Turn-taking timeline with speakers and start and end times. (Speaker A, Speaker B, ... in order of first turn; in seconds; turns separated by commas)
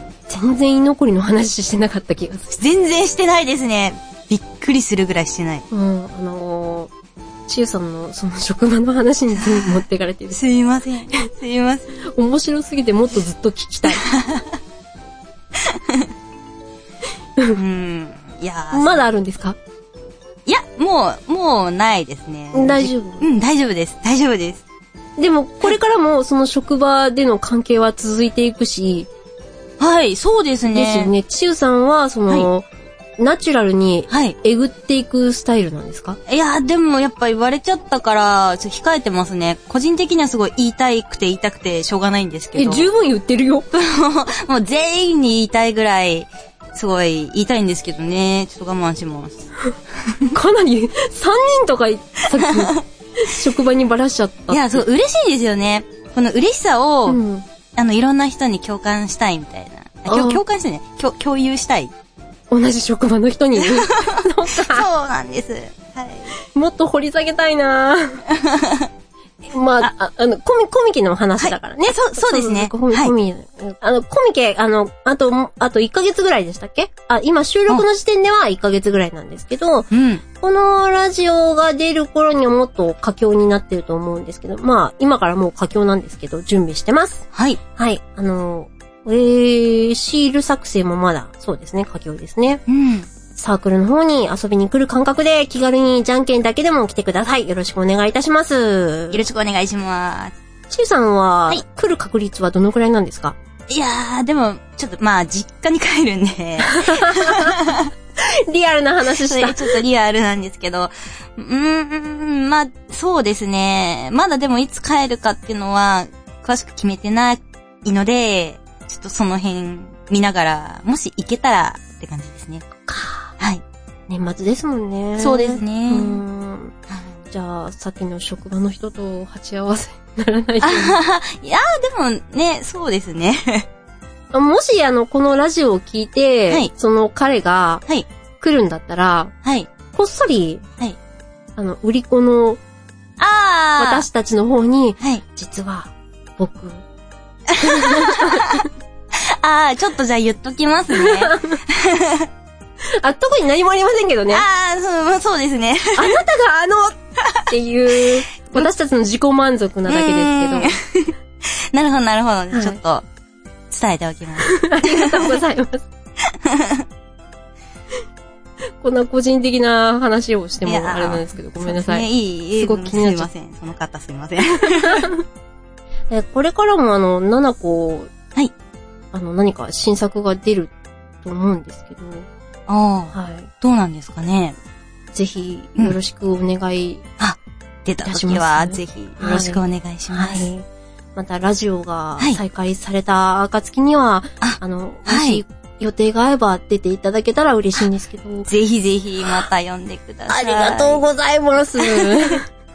Speaker A: 0.3-2.5, Speaker B: 2.5-5.6, Speaker A: 5.7-6.9, Speaker A: 7.5-10.4, Speaker B: 9.4-12.0, Speaker A: 12.1-14.1, Speaker B: 13.9-14.6, Speaker B: 15.5-16.1, Speaker B: 17.5-19.0, Speaker A: 18.7-19.6, Speaker B: 20.4-24.6, Speaker A: 22.5-23.3, Speaker A: 25.2-29.1, Speaker B: 29.8-31.1, Speaker A: 30.7-32.6, Speaker A: 33.2-36.2, Speaker B: 34.1-34.4, Speaker B: 36.2-42.9, Speaker A: 42.5-43.7, Speaker B: 43.7-49.5, Speaker B: 50.1-50.3, Speaker A: 50.3-54.9, Speaker B: 52.4-52.8, Speaker B: 54.5-57.2, Speaker A: 57.1-57.4, Speaker B: 57.7-61.9, Speaker A: 60.1-60.4, Speaker A: 62.5-64.9, Speaker B: 63.6-66.3, Speaker A: 66.4-68.2, Speaker B: 68.3-68.9, Speaker A: 69.5-92.6, Speaker B: 71.4-73.1, Speaker B: 79.9-80.2, Speaker B: 87.3-87.6, Speaker B: 92.7-93.1, Speaker A: 93.3-99.2, Speaker B: 99.1-100.3, Speaker A: 100.7-103.3, Speaker B: 103.7-107.9, Speaker A: 106.6-107.6, Speaker A: 108.2-109.8, Speaker B: 109.2-122.6, Speaker A: 122.9-123.3, Speaker A: 124.1-126.7, Speaker B: 125.2-126.2, Speaker B: 126.9-127.1, Speaker A: 127.3-131.0, Speaker B: 130.6-133.7, Speaker A: 134.3-137.8, Speaker A: 138.4-139.3, Speaker B: 139.4-139.7, Speaker A: 139.9-140.6, Speaker A: 141.6-142.6, Speaker B: 143.2-144.1, Speaker A: 143.8-146.8, Speaker B: 147.5-152.3, Speaker A: 147.6-148.7, Speaker A: 150.9-151.6, Speaker A: 152.9-154.4, Speaker B: 154.3-156.2, Speaker A: 155.9-160.8, Speaker B: 159.9-163.1, Speaker A: 162.5-162.8, Speaker B: 163.7-165.4, Speaker A: 164.4-165.9, Speaker B: 166.2-166.9, Speaker A: 168.8-172.1, Speaker B: 170.6-175.1, Speaker A: 172.6-173.3, Speaker A: 174.6-175.2, Speaker A: 176.1-178.1, Speaker A: 179.1-180.7, Speaker A: 181.2-182.3, Speaker B: 182.7-184.6, Speaker A: 183.1-183.5, Speaker A: 185.1-187.0, Speaker B: 187.2-190.5, Speaker A: 188.0-190.6, Speaker A: 191.2-198.5, Speaker B: 194.4-195.4, Speaker B: 198.5-201.0, Speaker A: 200.3-202.5, Speaker B: 201.8-202.4